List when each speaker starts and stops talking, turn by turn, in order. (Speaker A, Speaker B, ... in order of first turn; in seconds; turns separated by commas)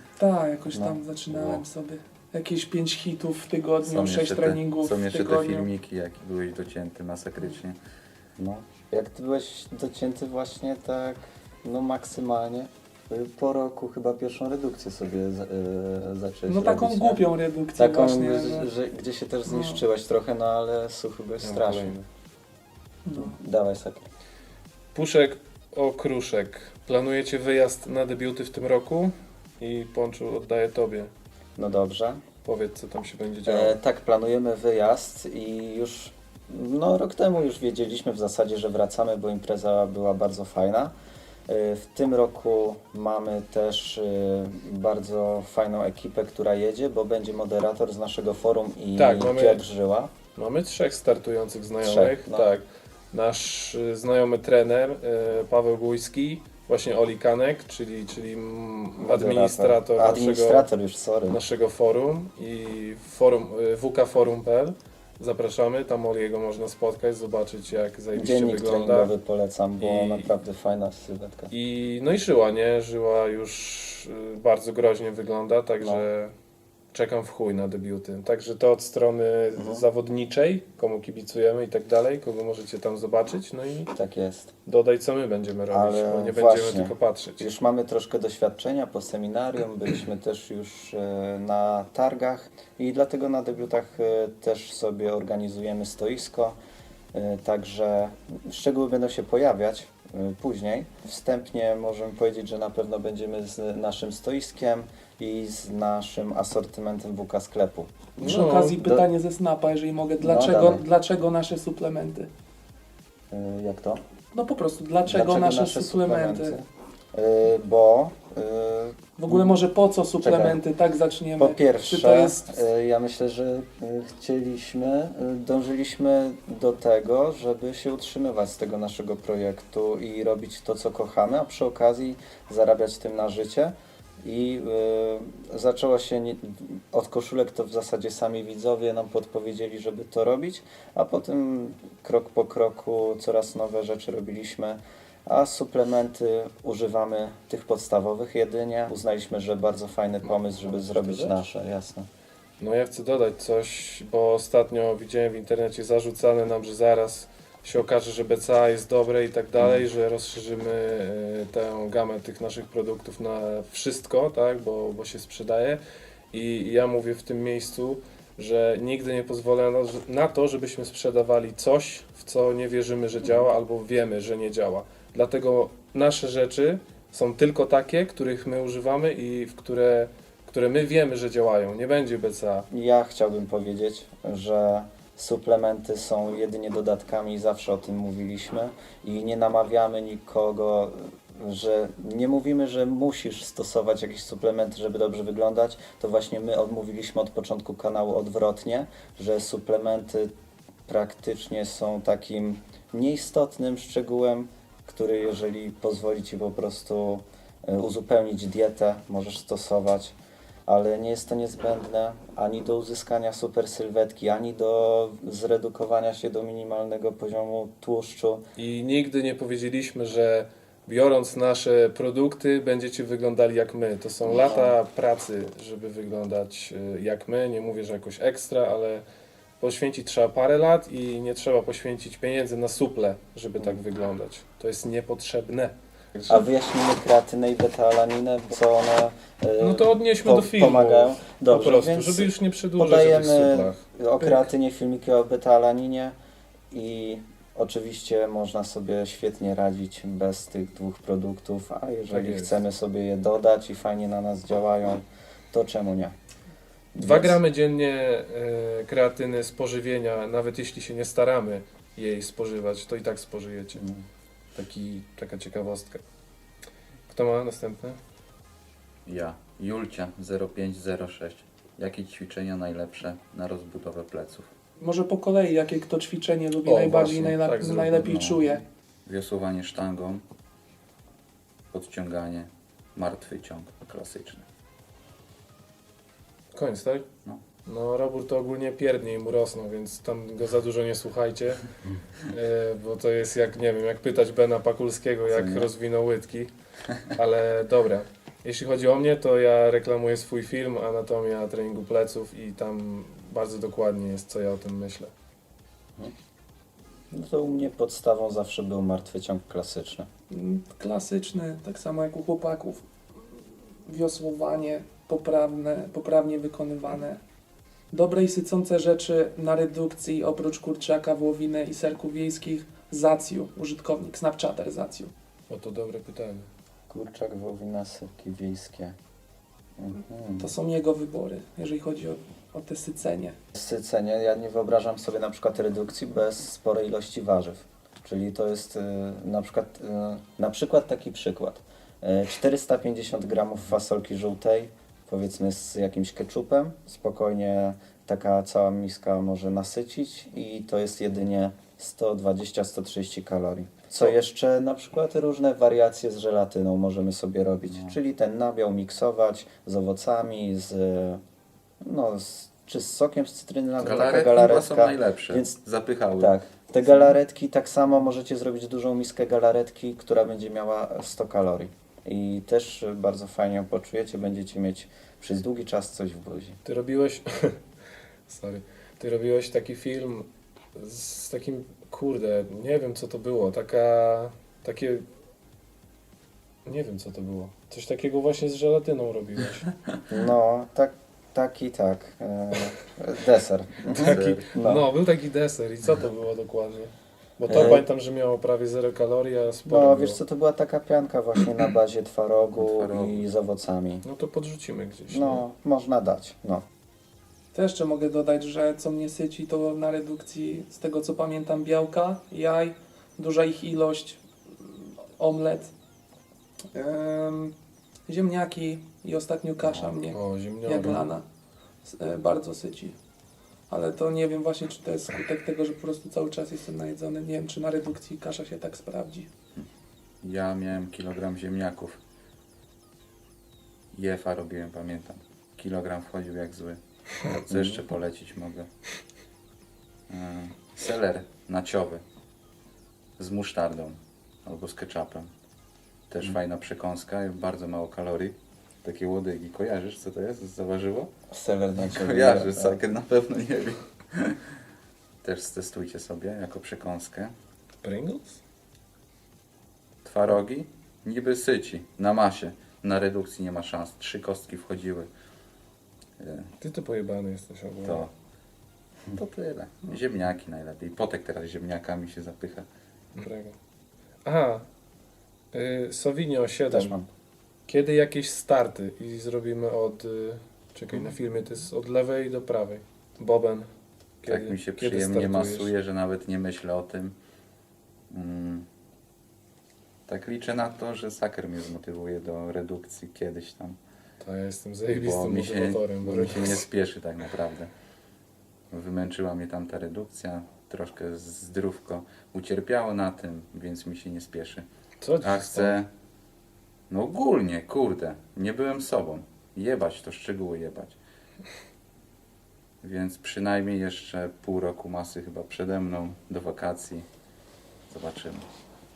Speaker A: 0.2-5.7, Speaker B: 0.7-1.0, Speaker C: 1.3-1.6, Speaker C: 3.8-7.8, Speaker B: 8.4-17.2, Speaker A: 16.5-18.7, Speaker B: 17.8-21.9, Speaker A: 19.5-19.8, Speaker D: 21.4-22.1, Speaker A: 23.1-23.3, Speaker B: 23.1-24.1, Speaker D: 24.9-31.1, Speaker B: 31.6-32.2, Speaker D: 32.5-33.8, Speaker B: 33.5-40.9, Speaker B: 41.5-50.1, Speaker D: 49.0-49.6, Speaker D: 50.4-60.7, Speaker B: 51.8-52.5, Speaker B: 59.0-61.4, Speaker D: 61.3-69.1, Speaker B: 68.1-71.5, Speaker D: 69.8-70.3, Speaker D: 71.5-76.3, Speaker B: 75.8-76.0, Speaker D: 76.9-83.9, Speaker B: 79.6-79.8, Speaker B: 83.9-84.5, Speaker D: 84.7-87.5, Speaker B: 85.7-96.6, Speaker B: 97.1-109.1, Speaker D: 108.2-108.8, Speaker A: 108.2-112.3, Speaker B: 110.2-110.8, Speaker B: 113.3-114.0, Speaker A: 114.3-116.6, Speaker B: 115.0-119.6, Speaker A: 119.2-122.6, Speaker B: 120.2-120.6, Speaker B: 121.4-152.1, Speaker D: 150.2-151.4, Speaker D: 152.6-165.8, Speaker D: 166.3-182.7, Speaker B: 182.7-200.3, Speaker B: 200.9-210.2, Speaker B: 210.7-218.4, Speaker D: 218.6-229.0, Speaker B: 224.2-224.8, Speaker D: 229.6-236.5, Speaker B: 236.3-246.2, Speaker D: 239.6-244.5, Speaker B: 246.7-256.1, Speaker D: 252.1-252.6, Speaker B: 256.9-257.4, Speaker D: 257.0-263.8, Speaker B: 263.8-264.0, Speaker D: 264.6-266.0, Speaker D: 267.1-268.0, Speaker C: 269.1-274.5, Speaker A: 274.8-278.6, Speaker D: 276.6-278.2, Speaker C: 277.9-278.5, Speaker C: 279.1-280.2, Speaker C: 281.7-284.4, Speaker D: 286.5-287.1, Speaker D: 287.7-291.7, Speaker D: 292.2-296.5, Speaker C: 295.3-295.7, Speaker D: 297.0-305.1, Speaker B: 307.1-310.1, Speaker A: 310.3-317.2, Speaker A: 317.9-325.1, Speaker D: 325.5-326.5, Speaker B: 326.9-329.0, Speaker B: 329.8-330.5, Speaker A: 330.4-333.4, Speaker B: 333.5-361.2, Speaker C: 357.7-358.0, Speaker B: 361.8-365.6, Speaker C: 363.8-366.4, Speaker B: 366.2-376.6, Speaker D: 376.6-377.6, Speaker D: 378.3-385.1, Speaker D: 386.6-389.7, Speaker B: 390.1-394.9, Speaker D: 393.9-400.2, Speaker C: 394.1-394.4, Speaker B: 397.5-397.9, Speaker B: 399.7-404.0, Speaker C: 402.6-403.3, Speaker D: 404.0-405.4, Speaker B: 405.1-406.6, Speaker A: 407.5-415.7, Speaker A: 416.7-417.5, Speaker A: 418.1-421.2, Speaker C: 419.6-419.9, Speaker D: 420.1-421.1, Speaker A: 421.8-423.0, Speaker A: 423.7-429.3, Speaker C: 430.2-432.0, Speaker C: 433.9-438.7, Speaker B: 437.5-437.8, Speaker C: 440.1-442.0, Speaker C: 443.2-445.3, Speaker C: 446.1-451.1, Speaker B: 451.3-452.8, Speaker C: 451.8-454.4, Speaker C: 455.2-457.3, Speaker D: 457.8-458.4, Speaker C: 460.1-465.1, Speaker C: 466.2-466.5, Speaker D: 466.6-468.1, Speaker C: 467.8-468.1, Speaker C: 469.1-472.7, Speaker D: 473.1-473.6, Speaker D: 474.2-474.6, Speaker D: 475.5-477.0, Speaker B: 476.7-477.1, Speaker D: 477.7-483.7, Speaker D: 484.2-485.7, Speaker C: 484.3-487.1, Speaker C: 488.1-488.7, Speaker C: 490.1-493.8, Speaker D: 494.2-496.6, Speaker C: 494.9-497.7, Speaker C: 498.7-504.7, Speaker D: 505.0-505.8, Speaker C: 505.2-505.9, Speaker C: 506.9-511.0, Speaker C: 512.8-517.1, Speaker C: 517.9-518.5